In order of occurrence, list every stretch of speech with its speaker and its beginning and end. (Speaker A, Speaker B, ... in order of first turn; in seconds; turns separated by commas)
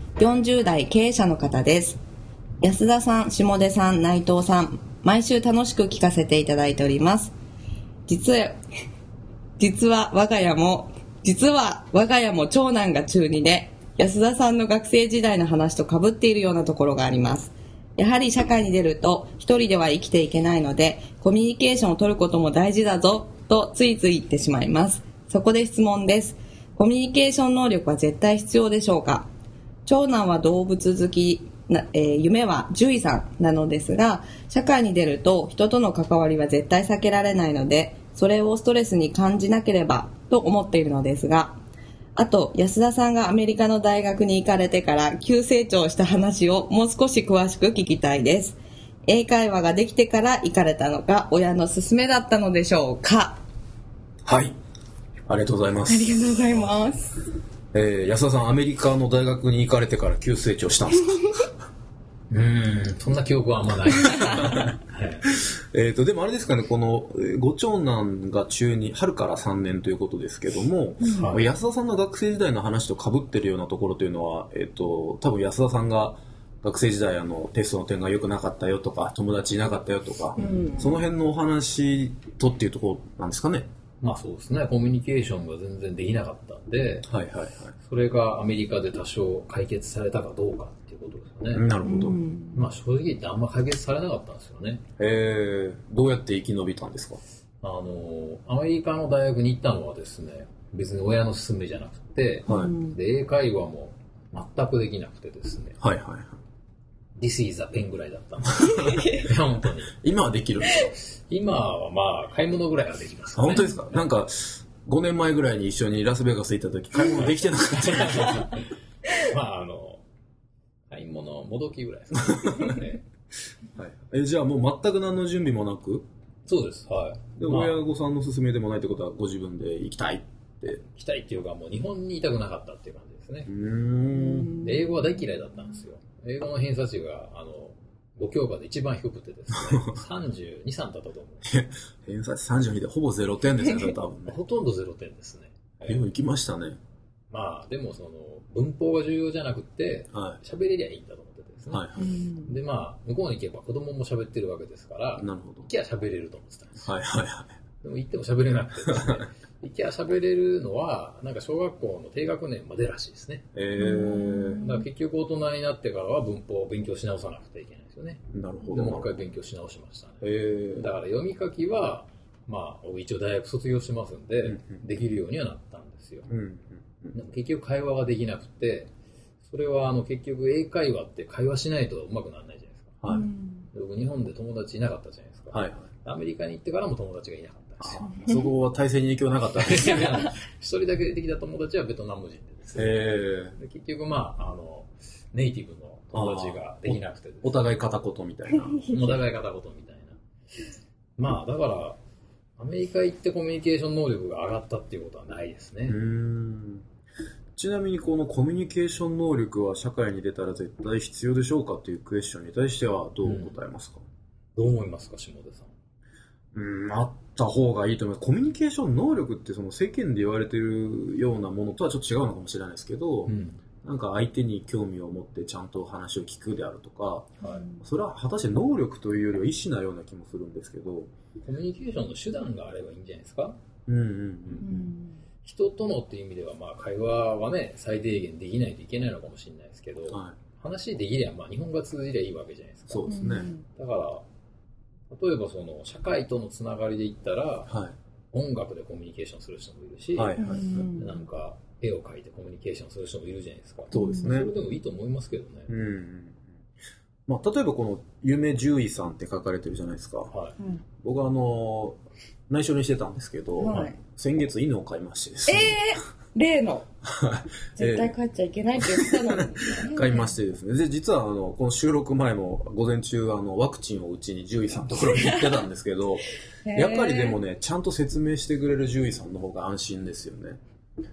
Speaker A: 0.2-2.0, Speaker A: 2.6-7.3, Speaker A: 8.1-8.6, Speaker A: 9.6-29.3, Speaker A: 29.9-41.6, Speaker A: 42.2-53.4, Speaker B: 54.3-54.6, Speaker B: 55.3-56.2, Speaker A: 55.9-57.2, Speaker B: 57.7-61.5, Speaker C: 62.3-65.3, Speaker B: 64.1-64.7, Speaker B: 65.2-83.7, Speaker C: 71.0-71.4, Speaker A: 80.4-80.8, Speaker C: 84.0-87.1, Speaker B: 87.1-87.8, Speaker C: 87.8-91.7, Speaker B: 91.5-92.2, Speaker A: 91.8-92.6, Speaker C: 92.5-94.8, Speaker B: 95.0-97.2, Speaker C: 97.6-105.8, Speaker B: 102.5-102.7, Speaker B: 105.8-106.4, Speaker C: 107.2-110.0, Speaker B: 108.6-109.2, Speaker B: 110.0-111.0, Speaker C: 111.1-114.0, Speaker B: 113.4-118.6, Speaker C: 117.8-120.0, Speaker C: 120.9-123.0, Speaker B: 123.8-126.1, Speaker C: 126.5-127.8, Speaker B: 127.4-130.8, Speaker C: 130.9-133.5, Speaker B: 133.5-134.7, Speaker C: 134.5-141.5, Speaker B: 139.5-140.0, Speaker B: 141.4-144.4, Speaker C: 144.3-146.1, Speaker B: 145.8-146.8, Speaker C: 147.3-156.9, Speaker B: 150.1-150.4, Speaker B: 151.7-152.1, Speaker A: 152.1-152.5, Speaker B: 155.2-155.7, Speaker B: 156.8-157.5, Speaker C: 157.8-163.5, Speaker B: 158.9-159.2, Speaker B: 163.5-164.7, Speaker A: 163.8-164.5, Speaker C: 164.6-170.2, Speaker B: 168.3-169.2, Speaker B: 170.2-170.9, Speaker C: 170.8-176.3, Speaker B: 174.4-174.8, Speaker B: 176.3-177.2, Speaker C: 177.1-178.9, Speaker C: 179.4-182.9, Speaker B: 183.0-183.3, Speaker A: 183.2-183.6, Speaker C: 183.7-188.1, Speaker B: 185.5-185.9, Speaker B: 187.8-190.3, Speaker C: 189.5-197.6, Speaker B: 192.8-193.6, Speaker B: 196.1-199.2, Speaker C: 198.8-200.2, Speaker C: 201.2-202.0, Speaker C: 202.6-206.0, Speaker B: 205.8-206.8, Speaker B: 207.6-214.0, Speaker C: 213.2-213.6, Speaker C: 214.6-215.7, Speaker B: 216.5-223.3, Speaker C: 223.3-223.6, Speaker B: 223.8-231.1, Speaker C: 227.4-227.7, Speaker C: 231.4-233.6, Speaker B: 233.9-234.8, Speaker C: 234.6-234.8, Speaker A: 234.7-235.1, Speaker C: 235.4-244.2, Speaker B: 240.1-240.4, Speaker B: 242.9-243.5, Speaker A: 243.1-243.6, Speaker C: 245.1-247.7, Speaker B: 247.7-248.0, Speaker C: 248.3-255.7, Speaker B: 250.2-250.9, Speaker A: 250.5-251.0, Speaker B: 253.9-254.5, Speaker B: 255.7-256.5, Speaker B: 257.3-260.3, Speaker C: 260.3-260.6, Speaker B: 261.0-262.0, Speaker B: 262.5-265.8, Speaker A: 263.6-263.9, Speaker A: 265.5-266.9, Speaker B: 267.0-268.2, Speaker A: 267.8-270.3, Speaker B: 268.8-280.6, Speaker A: 276.6-277.4